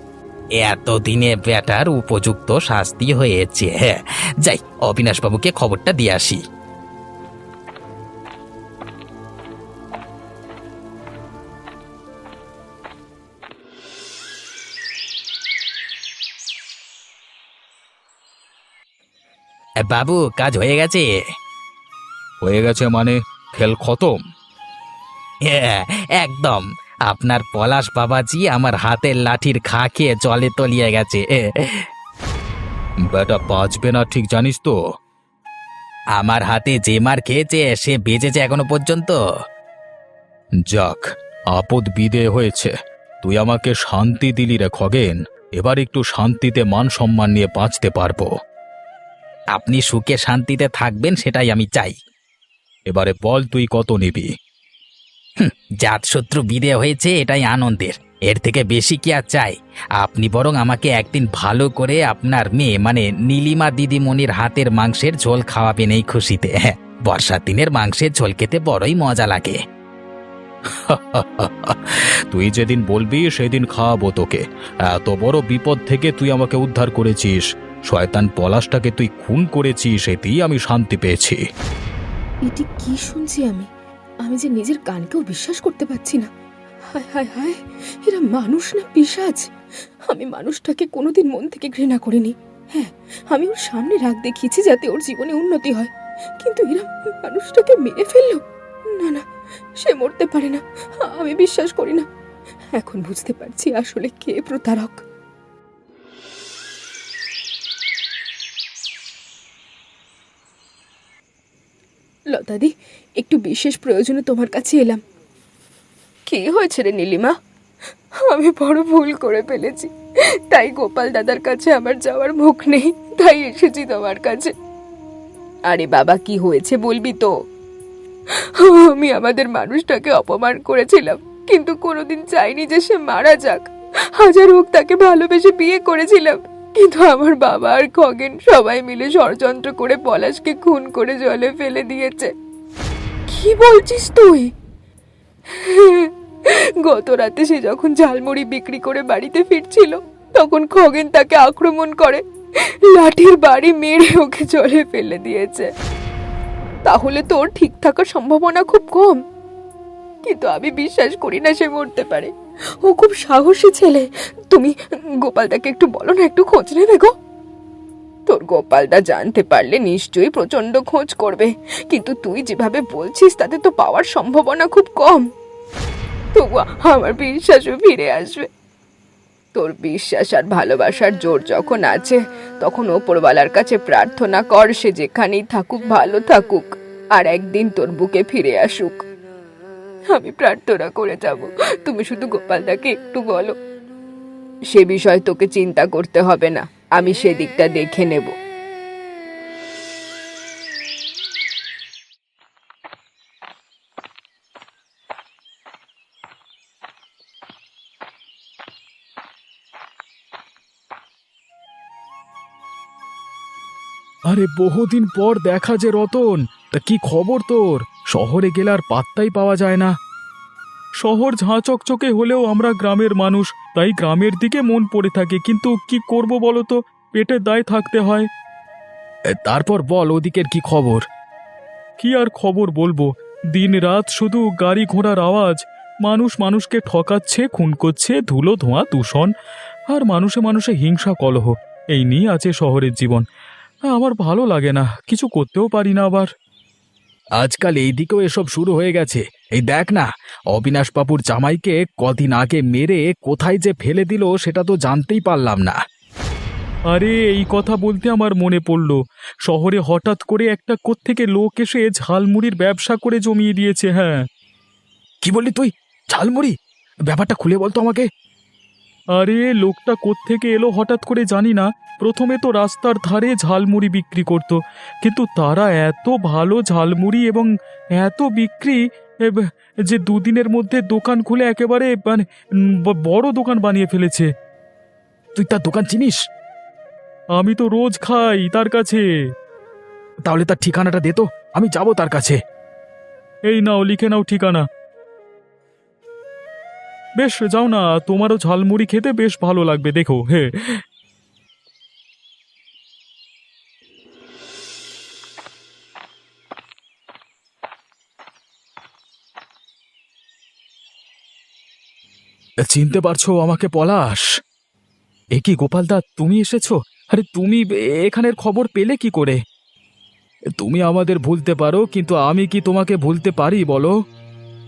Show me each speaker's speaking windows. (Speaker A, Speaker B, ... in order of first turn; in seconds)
Speaker A: 0.6-6.4, 19.8-21.1, 25.5-31.8, 36.1-39.2, 49.5-52.0, 55.4-69.6
Speaker B: 22.4-24.2, 33.1-34.7, 40.7-48.3, 52.9-54.3, 70.7-81.4, 214.3-219.9, 221.0-228.3, 229.4-231.0, 232.0-239.3, 239.9-243.2, 243.9-246.3, 247.4-255.8, 256.9-264.2, 265.2-266.5, 267.1-268.1, 269.1-282.2, 282.8-284.3, 285.3-286.2, 287.4-289.0, 290.2-292.4, 293.5-294.6, 297.2-300.7, 312.7-314.3, 315.4-319.4, 320.6-323.9
Speaker C: 82.4-83.7, 84.2-86.3, 86.9-89.5, 90.1-99.2, 99.8-102.1, 102.7-105.0, 112.3-115.0, 116.3-117.3, 118.2-119.9, 120.5-124.5, 125.7-127.3, 128.5-142.3, 143.3-144.5, 145.5-152.2, 152.9-155.7, 156.8-159.2, 160.2-162.3, 162.8-167.1, 168.3-175.3, 176.3-178.5, 179.5-189.0, 190.1-193.5, 194.7-198.3